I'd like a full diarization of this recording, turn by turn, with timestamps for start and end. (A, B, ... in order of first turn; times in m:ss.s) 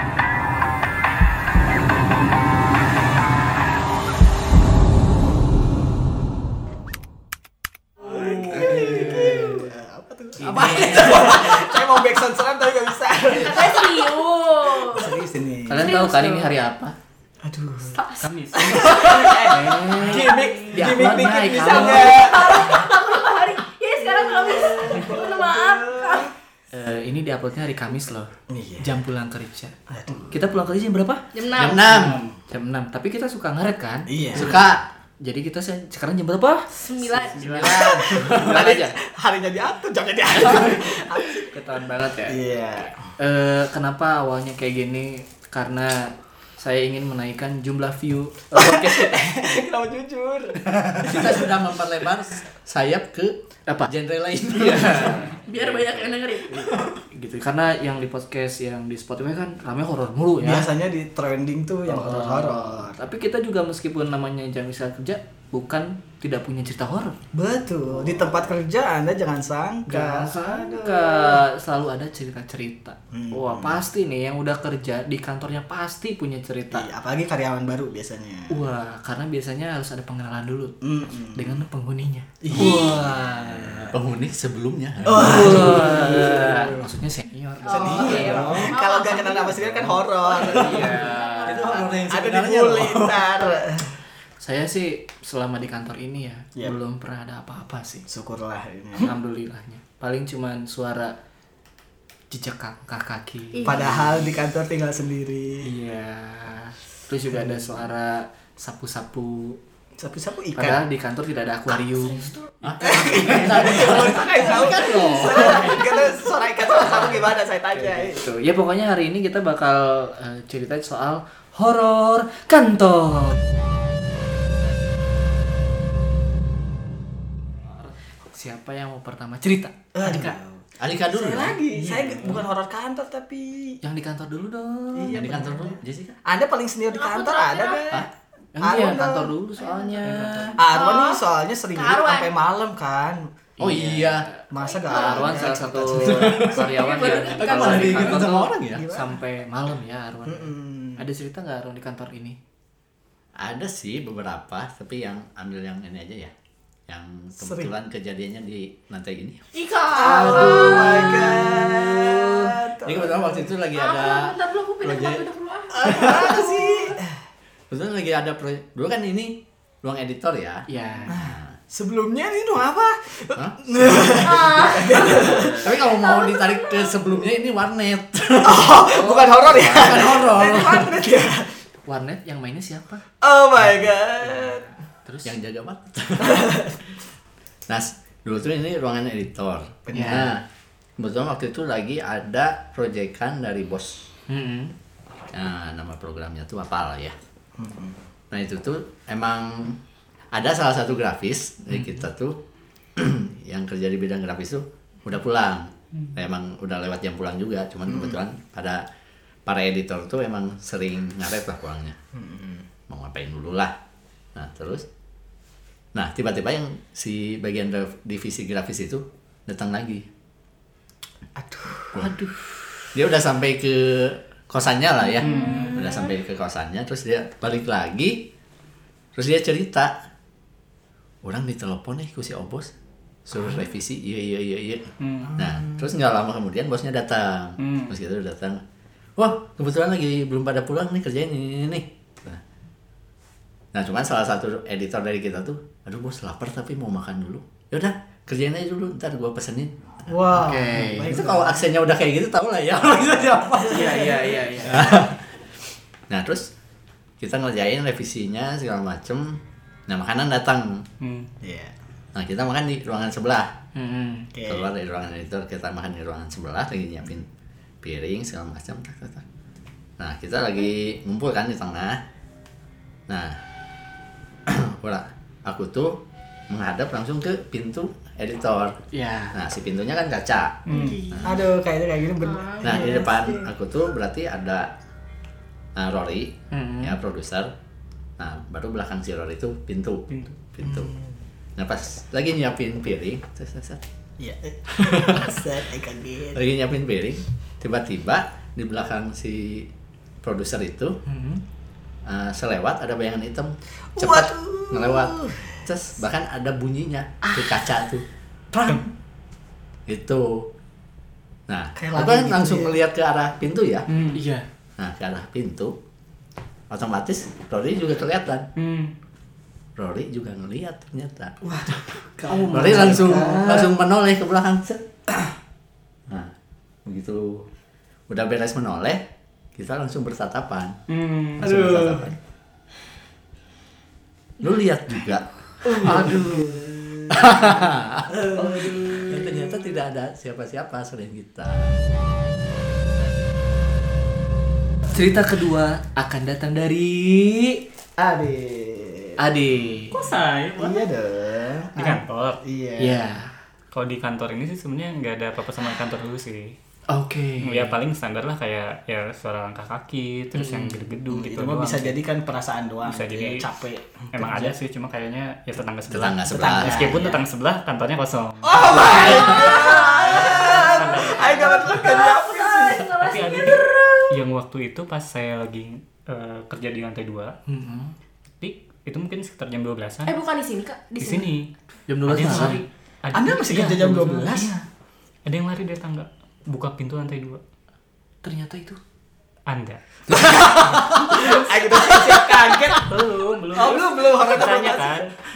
0:08.0-0:14.1 A
0:08.1-0:09.7 B
0:10.4-0:11.7 B
0:13.3-0:15.2 C
0:14.7-0:16.1 A
0:15.7-0:17.0 B
0:15.8-0:16.5 C
0:17.4-0:18.0 A
0:18.2-0:19.5 D
0:18.6-0:22.9 A
0:18.7-0:22.3 B
0:20.3-0:20.6 C
0:21.6-0:26.3 C
0:24.0-0:26.3 A
0:26.7-0:29.8 B
0:28.5-0:28.9 A
0:29.9-0:30.4 A
0:30.3-0:31.2 B
0:31.3-0:31.8 C
0:31.6-0:32.2 E
0:32.0-0:32.2 D
0:32.5-0:34.6 B
0:34.1-0:34.6 A
0:34.3-0:34.8 E
0:35.2-0:39.0 B
0:36.8-0:37.4 C
0:37.4-0:38.6 E
0:37.5-0:41.6 A
0:40.4-0:40.8 B
0:41.4-0:42.4 B
0:42.3-0:43.0 A
0:43.2-0:49.3 B
0:48.5-0:51.7 A
0:50.8-0:55.3 E
0:54.5-0:55.4 B
0:55.4-0:56.8 C
0:57.0-1:00.7 B
1:00.4-1:03.0 A
1:01.9-1:07.2 B
1:07.3-1:11.4 A
1:07.9-1:08.3 B
1:09.9-1:16.9 B
1:13.1-1:13.8 A
1:16.7-1:18.6 A
1:18.5-1:20.8 B
1:20.8-1:21.6 A
1:21.3-1:23.8 B
1:22.4-1:24.0 A
1:22.5-1:23.0 E
1:23.9-1:26.3 E
1:25.0-1:26.9 A
1:25.1-1:28.5 B
1:27.6-1:32.1 C
1:27.7-1:31.1 A
1:27.8-1:28.8 E
1:30.3-1:31.7 B
1:31.4-1:33.3 E
1:32.1-1:34.0 A
1:34.4-1:38.1 B
1:38.1-1:39.1 A
1:39.0-1:41.2 B
1:42.3-1:44.2 B
1:43.5-1:44.2 C
1:43.6-1:45.7 A
1:45.6-1:49.6 B
1:50.0-1:50.8 A
1:50.6-1:55.8 B
1:52.2-1:52.4 C
1:52.6-1:55.8 E
1:52.8-1:58.2 A
1:56.8-2:03.4 B
2:07.7-2:10.4 B
2:10.0-2:13.8 A
2:10.8-2:11.6 E
2:11.8-2:12.4 D
2:13.8-2:15.4 B
2:15.0-2:18.1 A
2:15.1-2:16.2 E
2:16.9-2:17.9 C
2:18.6-2:20.6 B
2:18.6-2:19.3 A
2:19.6-2:20.0 C
2:20.6-2:23.3 A
2:20.6-2:22.3 C
2:23.6-2:32.4 B
2:23.6-2:24.3 E
2:24.5-2:26.7 A
2:24.6-2:25.5 C
2:25.9-2:28.9 E
2:26.7-2:28.3 C
2:27.8-2:28.2 A
2:28.7-2:29.2 A
2:30.3-2:31.0 A
2:33.4-2:36.3 E
2:36.9-2:39.4 E
2:37.4-2:37.7 A
2:39.5-2:41.5 C
2:39.9-2:43.5 A
2:40.0-2:42.6 B
2:42.8-2:45.2 E
2:43.7-2:46.9 C
2:45.7-2:47.2 A
2:45.9-2:46.4 E
2:47.7-2:51.6 E
2:50.7-2:51.2 B
2:51.1-2:55.7 A
2:53.4-2:58.8 E
2:54.2-2:55.3 C
2:56.0-2:56.7 C
2:58.4-3:01.5 A
2:58.8-3:00.4 B
2:59.5-3:01.0 E
3:01.9-3:03.0 B
3:03.2-3:04.7 A
3:03.6-3:03.9 E
3:05.0-3:05.4 B
3:05.2-3:06.5 E
3:06.2-3:06.8 A
3:07.7-3:10.4 E
3:09.9-3:10.3 A
3:09.9-3:10.3 B
3:11.0-3:14.1 E
3:14.3-3:14.7 B
3:15.3-3:17.2 E
3:17.6-3:18.0 A
3:18.3-3:19.8 E
3:20.3-3:22.4 E
3:21.7-3:22.0 B
3:23.0-3:28.8 E
3:27.9-3:28.2 A
3:29.5-3:32.0 E
3:32.2-3:32.7 A
3:32.9-3:33.8 E
3:34.4-3:34.9 E
3:36.0-3:40.1 E
3:41.4-3:42.1 A
3:42.2-3:42.6 B
3:42.9-3:48.3 E
3:45.2-3:46.1 C
3:45.2-3:45.8 D
3:49.2-3:49.9 E
3:51.2-3:52.7 E
3:53.3-3:58.6 E
3:55.0-3:55.4 D
3:55.4-3:55.8 A
3:57.6-3:58.0 D
3:59.2-4:02.4 E
4:03.7-4:13.7 E
4:10.1-4:11.7 A
4:10.3-4:11.2 B
4:13.4-4:15.1 A
4:13.7-4:15.0 B
4:14.7-4:15.2 E
4:16.1-4:16.5 E
4:17.2-4:20.8 E
4:21.0-4:21.3 D
4:21.4-4:21.7 A
4:22.1-4:23.5 E
4:23.8-4:24.3 B
4:24.3-4:24.7 A
4:24.5-4:27.3 E
4:27.8-4:29.2 E
4:30.0-4:32.0 E
4:33.1-4:33.4 E
4:34.5-4:38.8 E
4:38.9-4:39.4 B
4:39.3-4:41.4 E
4:40.7-4:41.0 D
4:40.7-4:43.2 A
4:40.7-4:41.2 C
4:42.2-4:43.5 C
4:42.6-4:44.7 E
4:45.8-4:47.5 E
4:46.5-4:47.0 B
4:48.2-4:50.9 E
4:50.1-4:50.4 D
4:50.6-4:51.1 A
4:51.6-4:53.8 E
4:54.2-4:56.4 A
4:54.8-4:55.4 E
4:56.3-4:59.7 E
5:00.2-5:01.0 E
5:01.1-5:01.4 B
5:02.1-5:08.8 E
5:04.0-5:05.7 A
5:09.9-5:10.5 E
5:11.5-5:13.9 E
5:11.8-5:12.8 A
5:13.9-5:14.2 D
5:14.1-5:14.5 B
5:14.8-5:15.8 E
5:16.7-5:18.5 E
5:18.6-5:18.9 D
5:19.8-5:21.4 E
5:21.4-5:23.8 A
5:22.3-5:23.6 B
5:22.5-5:24.8 E
5:26.1-5:26.3 E
5:26.8-5:27.5 E
5:28.1-5:29.0 E
5:29.6-5:30.8 E
5:30.9-5:31.8 D
5:31.4-5:32.2 E
5:31.5-5:32.0 A
5:34.4-5:36.2 E
5:35.6-5:39.6 A
5:35.7-5:36.7 B
5:37.1-5:38.2 E
5:38.8-5:41.8 E
5:44.9-5:47.6 B
5:48.0-5:49.2 A
5:49.2-5:50.0 B
5:49.9-5:50.9 D
5:50.6-5:53.0 A
5:51.7-5:52.4 D
5:52.8-5:53.4 B
5:53.7-5:56.6 D
5:56.9-5:57.8 B
5:57.4-6:02.0 D
6:00.4-6:00.9 B
6:01.1-6:04.6 A
6:02.8-6:03.5 D
6:04.1-6:11.8 D
6:05.9-6:07.1 E
6:06.3-6:07.2 A
6:08.4-6:14.1 A
6:09.1-6:13.7 C
6:13.0-6:17.4 D
6:17.5-6:18.0 B
6:18.4-6:20.2 D
6:20.1-6:21.3 C
6:21.0-6:21.5 D
6:21.9-6:22.6 B
6:22.0-6:24.5 D
6:23.1-6:24.6 A
6:25.2-6:27.4 D
6:28.2-6:28.8 B
6:29.5-6:31.0 D
6:30.1-6:31.2 E
6:30.3-6:32.9 A
6:32.9-6:35.2 D
6:33.5-6:35.2 A